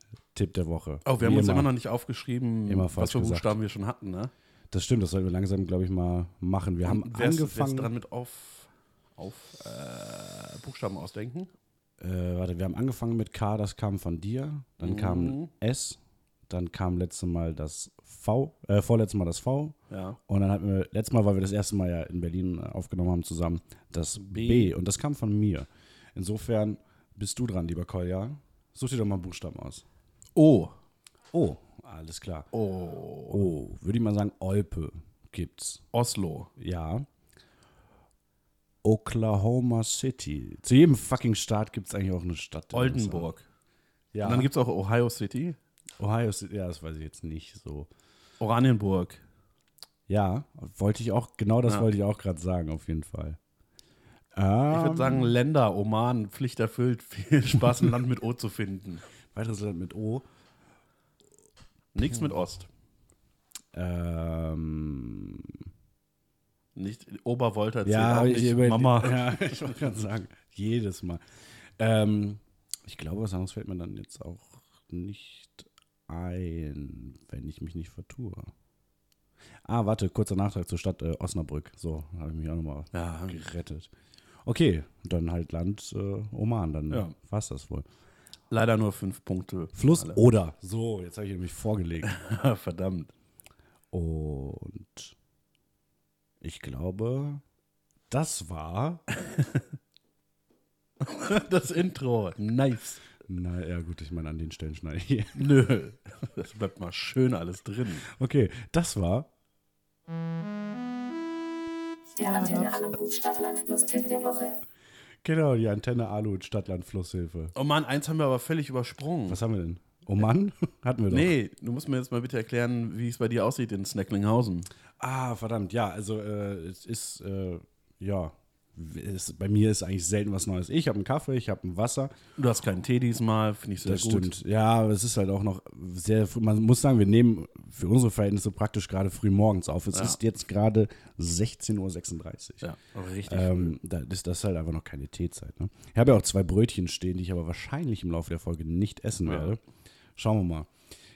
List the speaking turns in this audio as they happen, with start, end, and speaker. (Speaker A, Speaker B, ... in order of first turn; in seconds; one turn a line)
Speaker A: 0.3-1.7
Speaker B: 1.0-4.3
Speaker A: 2.7-3.5
Speaker A: 4.7-7.9
Speaker B: 6.8-11.5
Speaker A: 12.0-29.8
Speaker B: 14.8-15.5
Speaker B: 19.9-20.2
Speaker B: 24.2-24.7
Speaker B: 30.3-30.7
Speaker A: 31.3-32.5
Speaker B: 32.5-33.4
Speaker A: 33.3-35.8
Speaker B: 35.9-36.5
Speaker A: 36.6-37.1
Speaker A: 38.8-43.3
Speaker B: 42.7-43.5
Speaker A: 44.1-44.5
Speaker B: 44.2-45.6
Speaker A: 46.0-47.9
Speaker B: 48.4-49.2
Speaker A: 50.1-53.4
Speaker A: 54.3-55.3
Speaker B: 54.7-59.0
Speaker A: 59.3-60.2
Speaker B: 61.9-62.7
Speaker A: 63.7-65.6
Speaker B: 66.7-69.2
Speaker A: 67.8-71.2
Speaker A: 71.8-78.5
Speaker A: 79.6-83.9
Speaker B: 82.9-83.4
Speaker A: 84.4-87.8
Speaker B: 88.5-90.2
Speaker A: 89.7-92.1
Speaker B: 92.0-93.1
Speaker A: 93.9-95.1
Speaker A: 96.4-97.4
Speaker A: 98.1-99.0
Speaker B: 101.0-103.0
Speaker A: 103.2-105.6
Speaker B: 105.3-108.0
Speaker A: 108.1-109.3
Speaker C: 112.2-114.6
Speaker B: 112.2-112.7
Speaker A: 115.2-117.5
Speaker B: 117.5-119.4
Speaker A: 119.3-121.3
Speaker B: 121.1-124.7
Speaker A: 125.0-132.1
Speaker B: 132.4-134.3
Speaker A: 133.8-142.6
Speaker B: 139.9-140.2
Speaker B: 142.6-143.8
Speaker A: 143.3-149.6
Speaker B: 149.2-149.5
Speaker A: 150.2-150.7